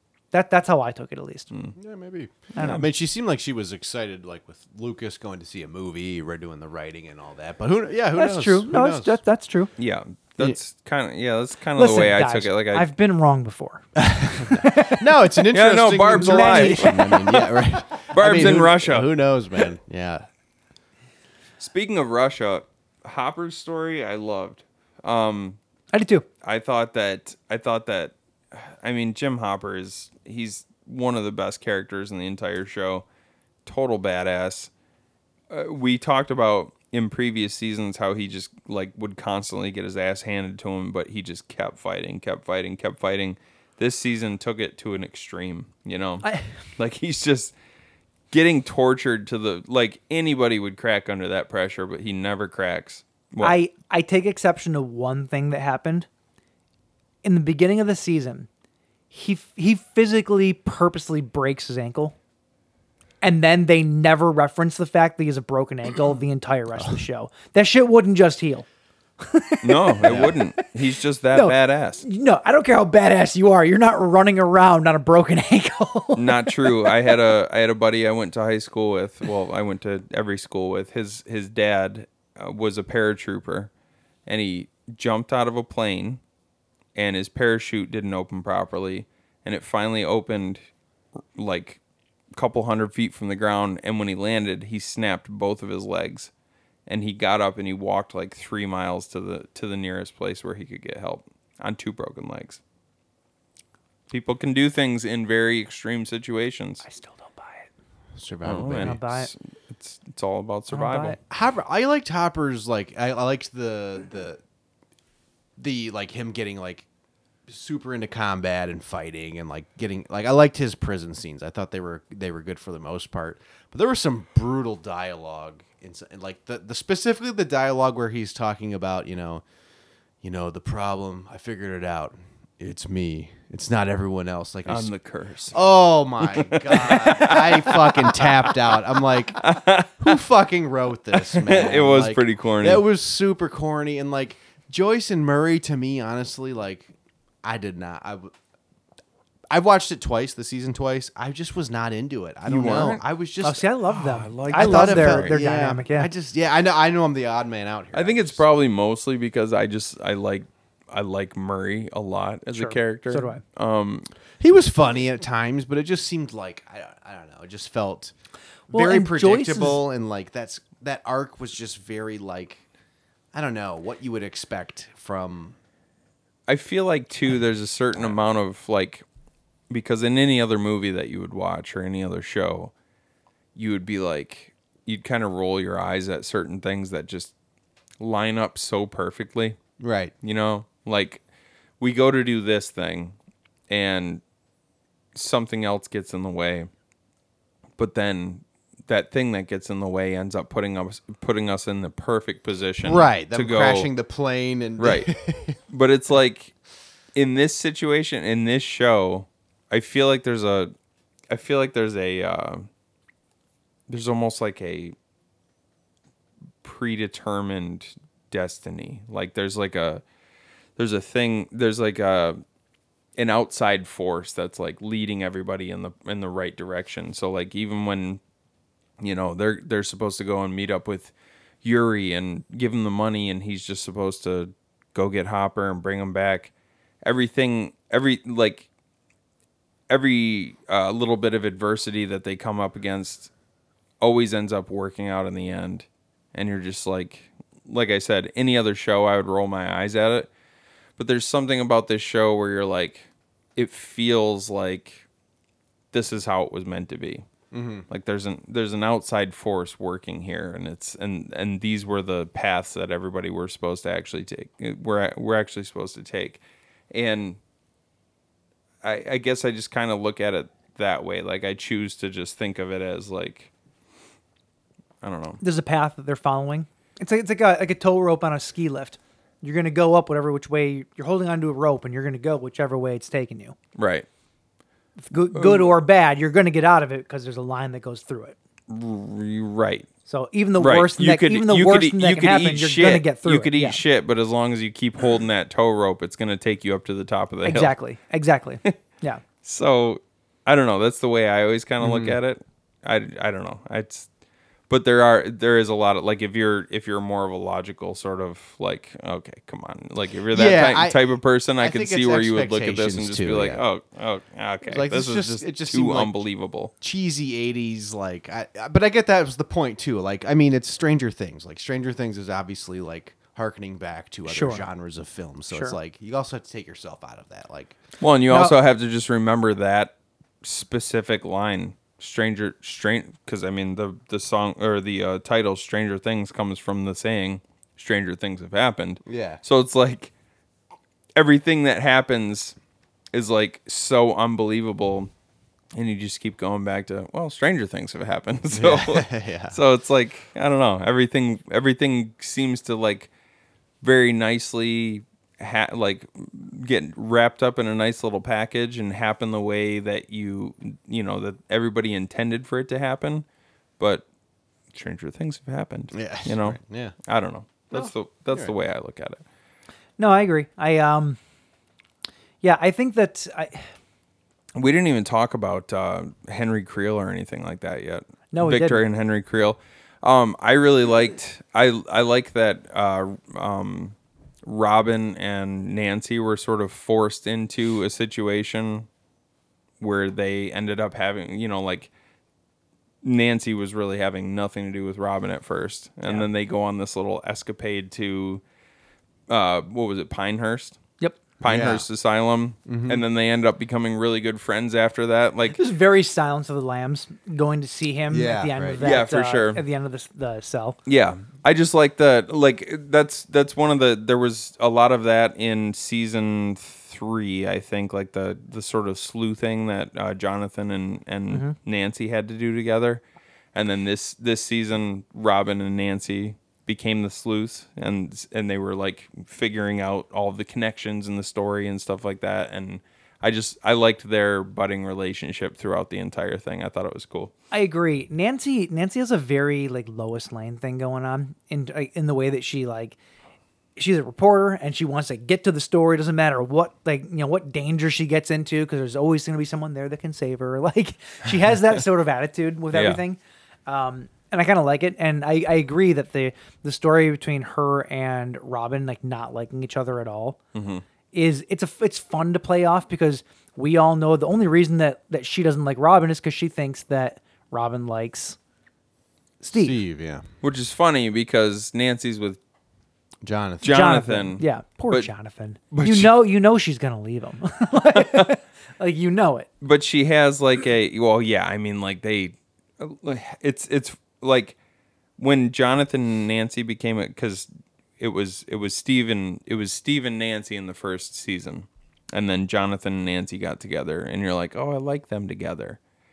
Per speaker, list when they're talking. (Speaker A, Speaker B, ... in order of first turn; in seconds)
Speaker A: 0.3-1.5, 2.5-2.9, 8.2-9.7, 11.8-13.9, 14.5-15.0, 16.1-17.2, 25.9-26.3, 53.4-56.1, 57.2-58.5, 59.1-62.1, 63.2-68.7, 69.2-70.4, 71.3-77.1, 106.8-107.7, 108.8-109.3, 110.7-111.2, 153.4-156.1, 162.5-163.4, 168.7-169.8, 275.4-283.6, 285.0-288.4, 290.1-293.8, 297.4-299.2, 324.3-324.6, 325.5-325.8, 370.0-371.2, 372.4-373.7, 378.3-378.8, 405.5-410.8, 421.3-421.6, 437.5-443.0, 443.8-460.4, 461.1-468.4, 469.4-469.8, 473.6-479.5
Speaker B: 1.8-9.2, 14.0-20.3, 70.0-70.4, 108.2-109.0, 111.3-114.4, 115.6-116.9, 117.5-129.4, 130.2-134.9, 135.5-139.5, 140.0-146.9, 147.4-148.3, 149.5-153.7, 154.5-158.4, 164.4-168.1, 168.7-172.6, 173.3-175.6, 189.8-190.1, 202.8-205.6, 257.5-257.9, 301.8-302.2, 310.3-313.6, 314.6-316.2, 316.8-327.8, 339.1-339.4, 348.5-349.6, 365.9-366.9, 367.7-368.5, 401.4-401.9, 402.7-403.0, 408.1-409.0, 469.5-470.2, 473.2-473.8
Speaker C: 2.6-2.9, 9.8-12.9, 15.5-19.1, 21.6-25.6, 26.4-33.0, 33.7-34.7, 35.5-47.5, 48.3-53.6, 69.6-72.0, 76.2-83.7, 84.3-86.2, 87.0-90.6, 91.4-91.8, 92.3-96.3, 96.9-102.6, 104.1-106.8, 108.4-111.2, 134.7-135.6, 136.2-138.8, 139.4-140.2, 141.2-142.8, 152.5-153.0, 153.9-155.4, 157.9-164.1, 176.5-179.1, 179.7-182.7, 183.6-187.3, 188.0-189.6, 190.2-191.2, 191.8-193.2, 193.7-194.2, 195.2-196.7, 197.8-203.9, 204.8-205.1, 205.7-206.5, 207.2-210.7, 211.3-212.7, 213.9-214.9, 216.6-220.0, 220.8-222.4, 223.2-228.2, 229.0-236.5, 237.0-238.7, 239.9-243.3, 244.0-250.3, 251.0-255.0, 255.9-257.2, 257.9-266.4, 266.9-267.4, 268.8-273.5, 275.0-275.4, 283.8-284.1, 285.3-285.8, 288.7-289.9, 290.6-297.7, 299.4-304.1, 304.7-316.7, 328.0-340.1, 341.2-342.6, 343.1-345.1, 345.8-353.1, 353.8-363.2, 363.8-364.1, 364.7-369.2, 374.6-388.9, 389.8-391.9, 393.0-398.4, 399.3-400.8, 401.4-405.6, 408.8-409.6, 410.9-423.0, 423.5-437.3, 452.7-453.0, 460.5-460.8, 470.4-472.4, 473.6-475.1, 475.7-476.1, 477.9-478.3, 479.6-484.6, 485.2-487.5, 488.0-495.8